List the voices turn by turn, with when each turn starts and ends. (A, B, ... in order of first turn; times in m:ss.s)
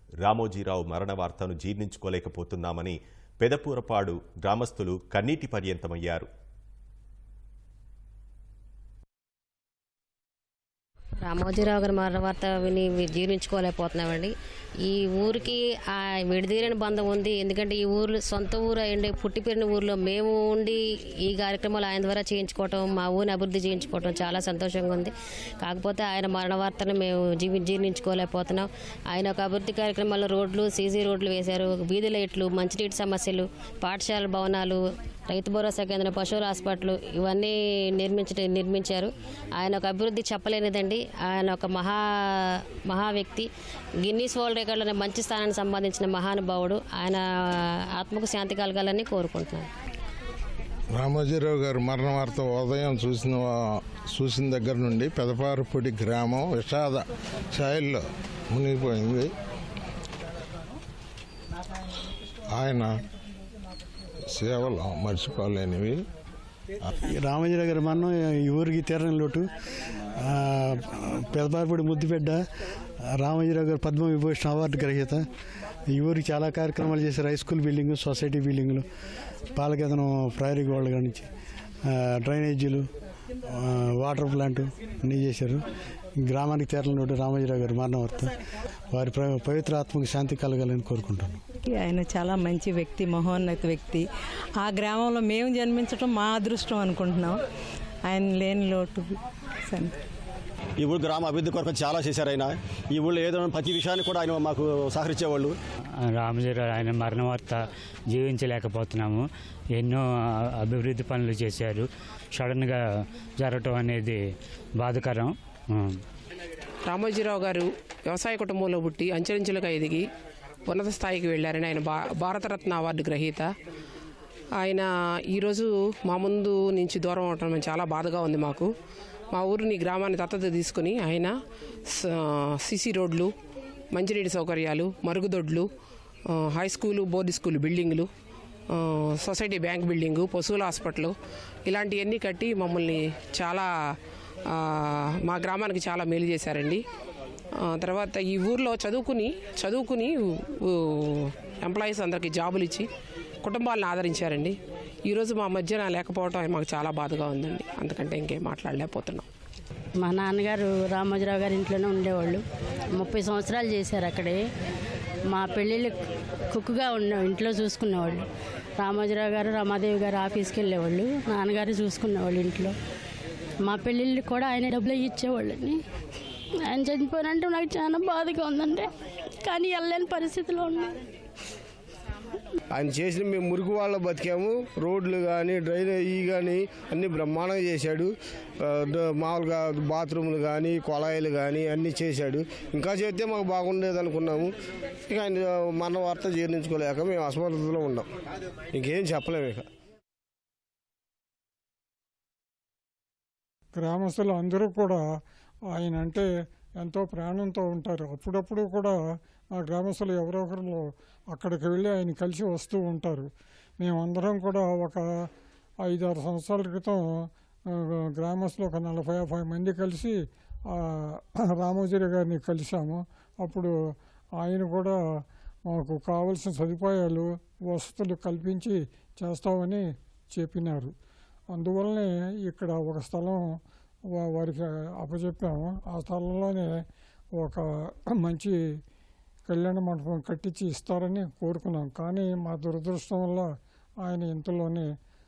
0:00.2-0:06.3 A
0:11.2-0:14.3 B
0:14.9-0:42.0 B
0:42.9-0:43.5 B
0:44.0-0:47.2 B
0:48.0-0:49.7 B
0:50.9-0:59.3 C
1:02.5-1:03.0 C
1:04.3-1:06.0 C
1:07.0-1:09.5 D
1:10.2-1:12.4 D
1:13.2-1:15.3 D
1:15.9-1:18.9 D
1:19.6-1:21.3 D
1:21.9-1:22.9 D
1:23.6-1:25.6 D
1:26.2-1:28.3 D
1:28.9-1:31.4 D
1:31.7-1:34.0 E
1:34.6-1:37.4 E
1:38.1-1:39.2 E
1:40.8-1:45.6 F
1:46.2-1:47.6 G
1:48.1-1:49.2 G
1:49.8-1:50.0 G
1:50.6-1:51.8 G
1:52.4-1:52.8 G
1:53.4-1:54.2 G
1:54.8-1:56.0 G
1:56.9-2:00.1 H
2:00.7-2:03.5 H
2:04.6-2:08.7 H
2:09.3-2:11.3 H
2:11.9-2:13.3 H
2:13.9-2:15.7 H
2:16.3-2:18.1 H
2:18.7-2:21.1 H
2:21.7-2:23.7 H
2:24.5-2:26.8 H
2:27.8-2:32.9 H
2:33.4-2:34.6 H
2:35.1-2:39.3 H
2:40.0-2:42.4 I
2:43.0-2:44.4 I
2:45.3-2:46.0 I
2:46.5-2:48.3 I
2:48.8-2:52.8 I
2:53.6-2:55.8 I
2:56.7-2:58.9 I
2:59.4-3:01.0 I
3:02.7-3:14.5 J
3:15.1-3:18.1 J
3:18.7-3:19.7 J
3:23.8-3:25.0 K
3:25.7-3:26.3 K
3:26.8-3:29.0 K
3:29.5-3:33.3 K
3:33.8-3:35.2 K
3:35.8-3:37.0 K
3:37.7-3:40.1 K
3:40.7-3:43.7 K
3:44.4-3:45.0 K
3:45.7-3:50.9 K
3:51.5-3:53.6 K
3:54.2-3:56.8 K
3:57.4-3:58.6 K
3:59.5-4:03.5 K
4:04.0-4:04.9 K